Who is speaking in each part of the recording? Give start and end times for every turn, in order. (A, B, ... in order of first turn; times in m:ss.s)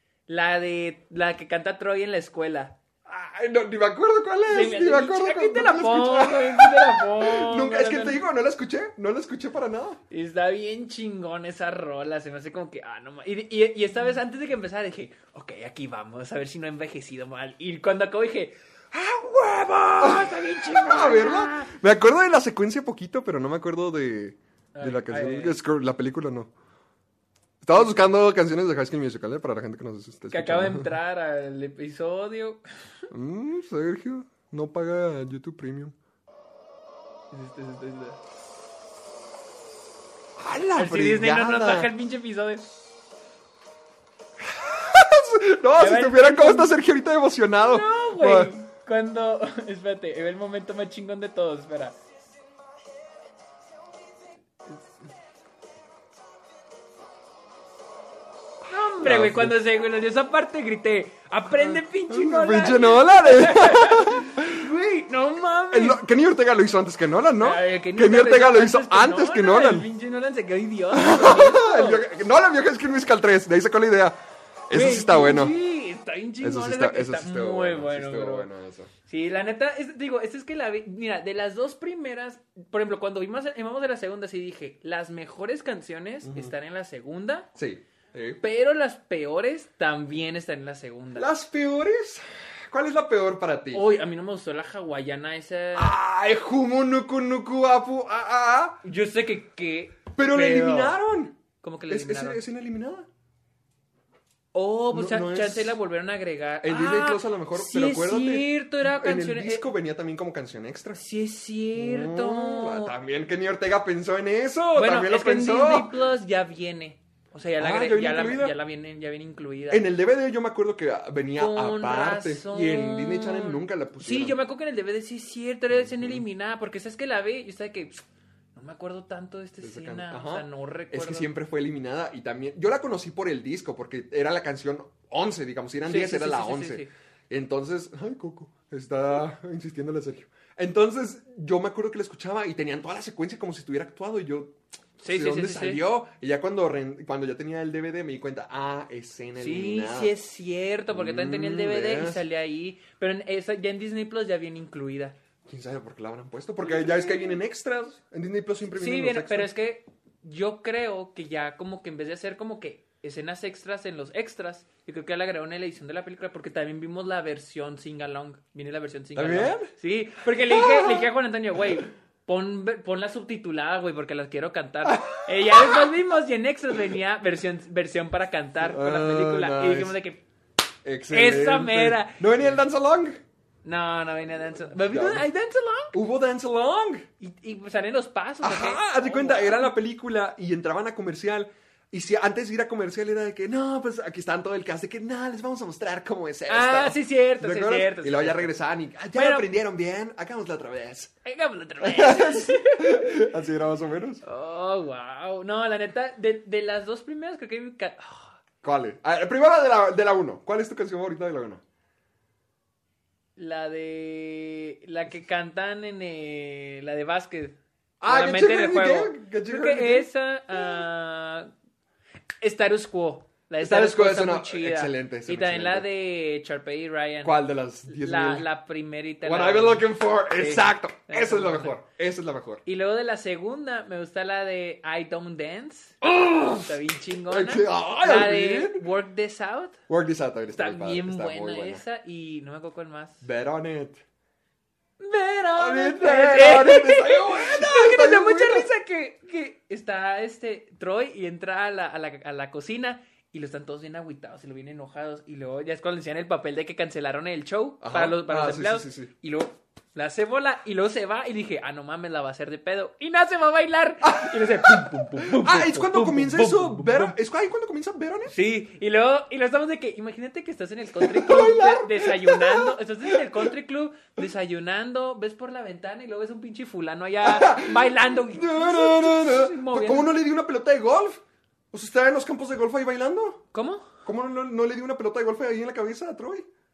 0:00.3-0:02.8 A
0:03.0-0:10.0 B
0:04.5-0:08.2 A
0:10.1-0:21.7 A
0:20.0-0:26.5 B
0:24.8-0:25.6 A
0:27.6-0:30.9 B
0:30.3-0:32.6 A
0:33.1-0:35.9 B
0:37.3-0:38.2 A
0:40.4-0:41.9 B
0:40.8-0:42.7 A
0:44.4-0:48.5 B
0:45.8-0:46.7 A
0:47.6-0:52.0 A
0:58.7-1:06.0 A
0:59.0-0:59.6 B
1:01.6-1:04.6 B
1:05.7-1:09.9 B
1:07.4-1:12.0 A
1:10.9-1:15.6 B
1:14.7-1:18.5 A
1:16.4-1:18.9 B
1:19.1-1:27.5 A
1:26.2-1:26.5 B
1:27.5-1:28.4 B
1:28.4-1:31.3 A
1:31.1-1:33.8 B
1:33.7-1:35.9 A
1:35.8-1:38.8 B
1:38.8-1:41.0 A
1:40.1-1:41.4 B
1:41.6-1:42.4 A
1:41.9-1:43.1 B
1:44.5-1:49.7 A
1:44.9-1:45.8 B
1:46.6-1:51.0 B
1:51.0-1:52.9 A
1:51.7-1:55.9 B
1:54.7-1:59.8 A
1:57.6-1:58.6 B
1:59.7-2:04.4 B
2:01.4-2:08.0 A
2:05.7-2:06.2 B
2:08.6-2:11.3 A
2:09.6-2:30.1 B
2:15.9-2:16.9 A
2:25.0-2:25.8 A
2:29.4-2:35.2 A
2:30.9-2:32.2 B
2:35.4-2:39.5 B
2:36.6-2:37.4 A
2:38.8-3:00.2 A
2:49.1-2:49.7 B
2:50.5-2:51.1 B
2:54.8-2:55.9 B
2:58.6-3:00.0 B
3:00.8-3:03.2 B
3:01.1-3:02.6 A
3:03.6-3:06.0 A
3:04.9-3:05.2 B
3:05.9-3:07.1 B
3:07.2-3:09.7 A
3:08.4-3:21.1 B
3:16.5-3:18.5 A
3:19.1-3:19.5 A
3:21.2-3:23.2 A
3:21.8-3:24.2 B
3:24.2-3:28.4 A
3:28.6-3:31.6 B
3:33.4-3:41.5 A
3:38.0-3:40.1 B
3:42.4-3:47.4 A
3:43.6-3:45.9 B
3:47.2-3:48.4 B
3:47.9-3:51.8 A
3:49.2-3:52.6 B
3:52.6-3:56.0 A
3:56.0-3:56.7 B
3:56.5-3:59.8 A
3:57.3-3:58.8 B
3:59.9-4:01.8 B
4:00.5-4:03.2 A
4:03.2-4:04.0 B
4:05.0-4:27.2 A
4:05.6-4:08.7 B
4:17.8-4:19.1 B
4:24.0-4:28.3 B
4:28.3-4:40.1 A
4:31.0-4:33.5 B
4:37.2-4:43.4 B
4:43.5-4:43.9 A
4:44.0-4:46.4 B